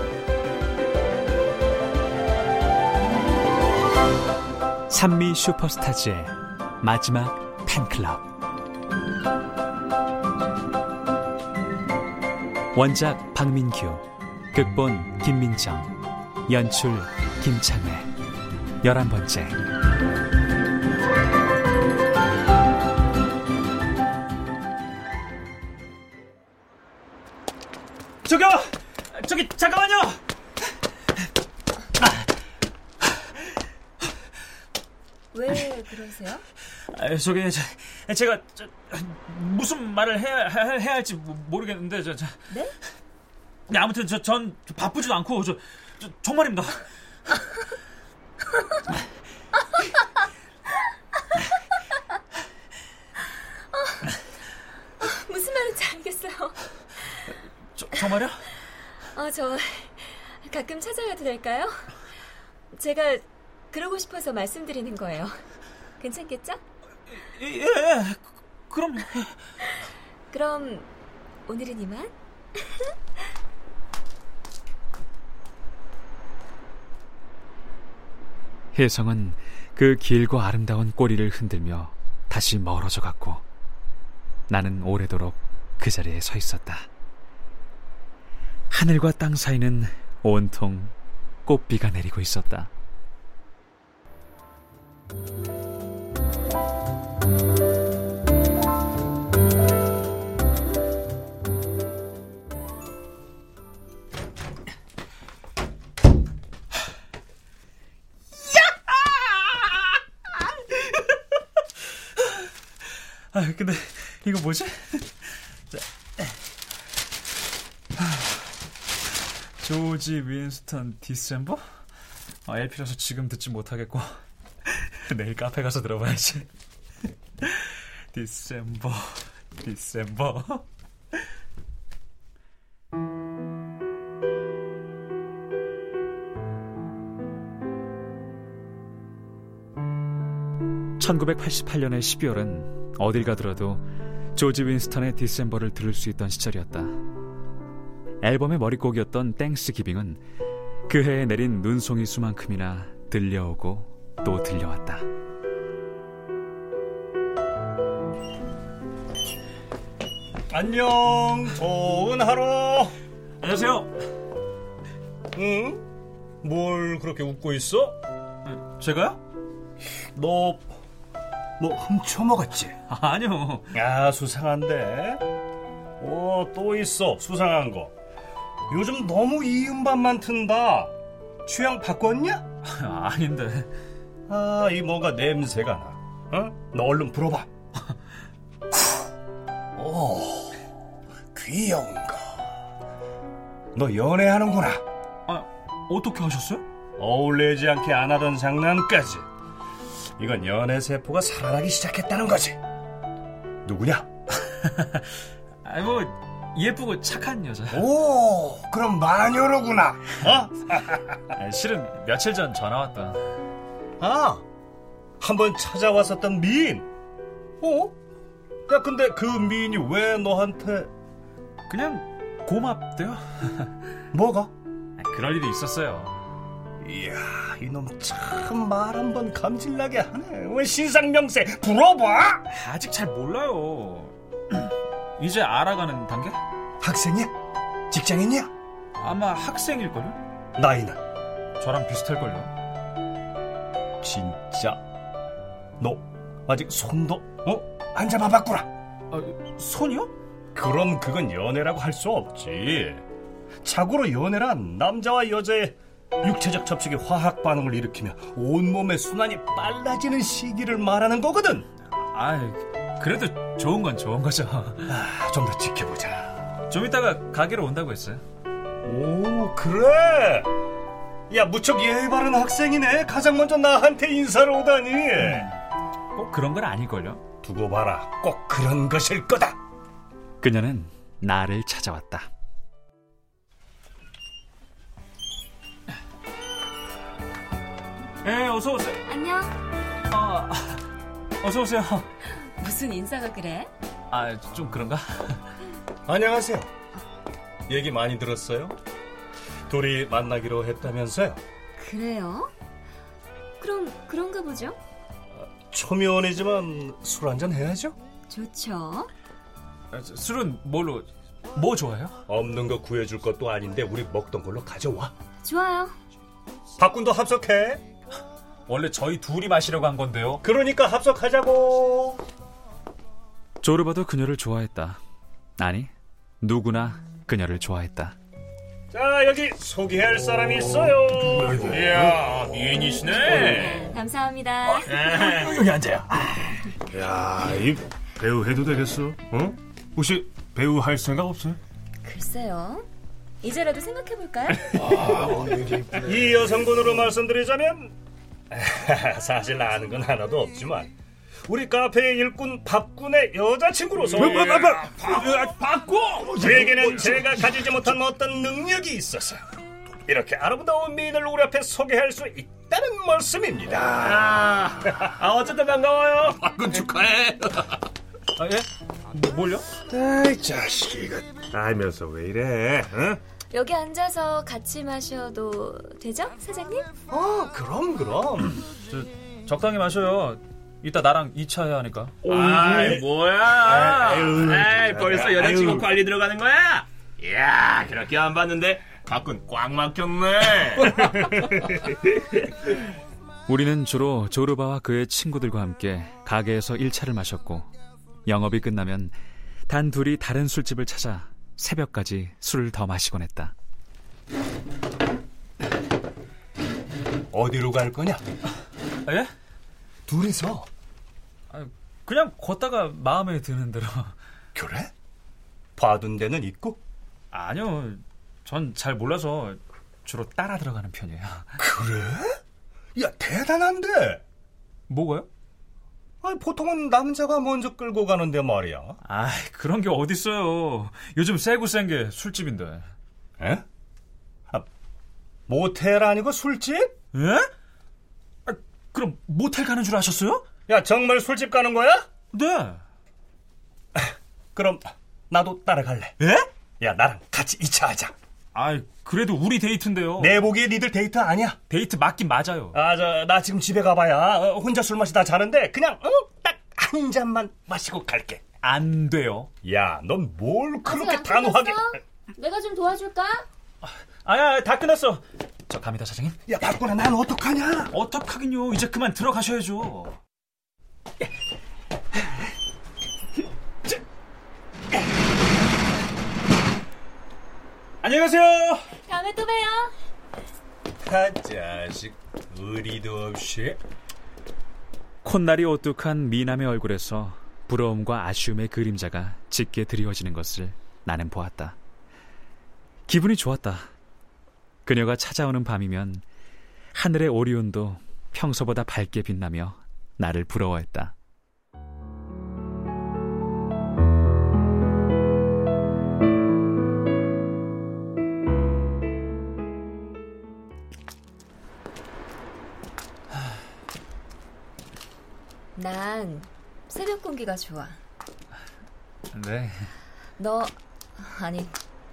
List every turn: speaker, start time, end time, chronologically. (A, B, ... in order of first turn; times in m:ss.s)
0:04.9-0:08.3 A
0:12.8-0:15.9 A
0:16.5-0:18.1 A
0:18.8-0:19.6 A
0:28.2-0:30.2 B
0:35.3-0:36.4 C
0:36.8-0:42.5 B
0:42.5-0:42.8 C
0:43.7-0:46.9 B
0:53.7-0:54.1 C
0:55.0-0:57.3 C
0:57.8-0:58.5 B
0:59.0-1:02.0 C
1:02.7-1:05.4 C
1:06.0-1:06.6 C
1:07.1-1:09.4 B
1:10.3-1:10.9 C
1:11.5-1:12.9 C
1:18.7-1:23.4 A
1:24.5-1:26.9 A
1:28.7-1:30.9 A
1:31.5-1:32.7 A
1:48.9-1:49.7 B
1:53.3-1:55.1 B
1:55.7-1:56.3 B
1:59.6-2:01.6 B
2:02.5-2:04.1 B
2:04.7-2:06.5 B
2:07.4-2:10.6 B
2:21.0-2:27.0 A
2:28.2-2:30.2 A
2:30.9-2:35.0 A
2:40.5-2:43.0 D
2:43.4-2:43.9 B
2:45.4-2:45.8 D
2:46.4-2:48.0 D
2:48.5-2:49.2 B
2:50.0-2:50.7 D
2:51.6-2:52.8 D
2:52.9-2:53.7 B
2:53.7-2:55.2 D
2:56.0-2:57.9 D
2:58.7-3:00.9 D
3:01.4-3:02.4 D
3:02.7-3:03.7 B
3:04.3-3:07.5 D
3:09.8-3:10.6 D
3:11.3-3:12.4 D
3:13.8-3:14.8 D
3:15.3-3:16.6 B
3:17.0-3:19.3 D
3:20.2-3:22.6 D
3:23.6-3:24.1 D
3:24.6-3:25.0 B
3:25.6-3:27.8 B
3:27.7-3:31.2 D
3:31.3-3:33.2 B
3:34.0-3:34.4 D
3:35.2-3:36.9 D
3:37.6-3:37.9 D
3:38.7-3:40.9 D
3:41.7-3:43.7 B
3:44.1-3:44.5 D
3:45.0-3:46.2 B
3:46.8-3:52.4 D
3:52.5-3:56.4 B
3:56.8-3:57.3 D
3:57.9-3:58.5 D
3:59.0-4:00.2 B
4:00.6-4:01.0 D
4:01.6-4:02.5 B
4:04.0-4:04.8 D
4:05.8-4:08.7 D
4:09.1-4:10.1 B
4:10.5-4:13.0 D
4:13.6-4:21.7 D
4:22.0-4:24.9 B
4:24.9-4:26.4 D
4:26.7-4:28.2 B
4:28.8-4:30.5 D
4:31.3-4:35.6 D
4:36.2-4:37.2 B
4:37.4-4:39.6 D
4:40.4-4:42.3 A
4:48.2-4:49.0 B
4:49.1-4:49.6 C
4:50.1-4:50.8 B
4:51.4-4:52.1 B
4:52.6-4:53.7 C
4:54.1-4:55.4 B
4:56.1-4:56.7 D
4:57.7-4:58.8 D
4:59.7-5:01.4 D
5:01.8-5:02.5 C
5:03.6-5:04.8 C
5:05.4-5:08.0 D
5:08.3-5:09.1 C
5:09.9-5:12.2 B
5:12.3-5:15.1 D
5:15.4-5:16.0 C
5:16.8-5:17.8 D
5:18.7-5:20.4 B
5:20.4-5:22.2 D
5:23.6-5:25.0 A
5:25.6-5:25.9 A
5:26.4-5:28.2 A
5:28.9-5:33.8 D
5:31.4-5:32.2 E
5:33.0-5:35.6 C
5:34.8-5:41.6 E
5:42.0-5:42.9 C
5:43.4-5:45.0 C
5:45.1-5:45.8 E
5:45.9-5:48.0 D
5:48.5-5:50.9 D
5:51.5-5:55.5 D
5:54.2-5:57.0 E
5:56.3-5:59.4 D
6:00.0-6:05.3 D
6:05.2-6:06.5 F
6:06.4-6:07.5 D
6:08.4-6:09.7 B
6:09.9-6:11.0 D
6:10.8-6:13.1 E
6:11.5-6:12.9 D
6:13.5-6:16.9 C
6:17.1-6:18.6 D
6:18.9-6:22.2 B
6:22.2-6:31.2 F
6:22.3-6:23.1 D
6:23.7-6:25.9 D
6:33.5-6:37.7 A
6:38.3-6:39.2 A
6:39.7-6:43.5 A
6:47.3-6:48.2 D
6:50.1-6:50.7 D
6:51.5-6:54.2 B
6:54.6-6:54.9 D
6:55.8-6:56.8 D
6:57.3-7:01.6 B
7:01.6-7:02.4 D
7:03.0-7:04.2 D
7:04.9-7:05.3 B
7:06.2-7:09.0 D
7:09.0-7:12.9 B
7:13.4-7:13.6 D
7:15.5-7:16.9 D
7:17.1-7:17.5 B
7:18.5-7:20.4 B
7:20.7-7:22.1 D
7:22.3-7:22.8 B
7:24.0-7:26.2 D
7:26.8-7:28.1 D
7:28.6-7:30.5 B
7:30.2-7:31.6 D
7:31.7-7:32.8 B
7:32.7-7:38.4 D
7:38.6-7:39.5 B
7:39.6-7:41.9 D
7:40.8-7:43.5 C
7:43.8-7:46.4 B
7:46.5-7:47.9 D
7:47.9-7:50.2 B
7:58.0-7:58.8 B
7:59.0-7:59.9 C
8:01.0-8:03.8 D
8:05.2-8:11.8 A
8:13.1-8:13.9 A
8:14.9-8:16.2 A
8:16.9-8:21.1 A
8:35.8-8:38.0 C
8:39.3-8:39.9 B
8:40.4-8:41.8 C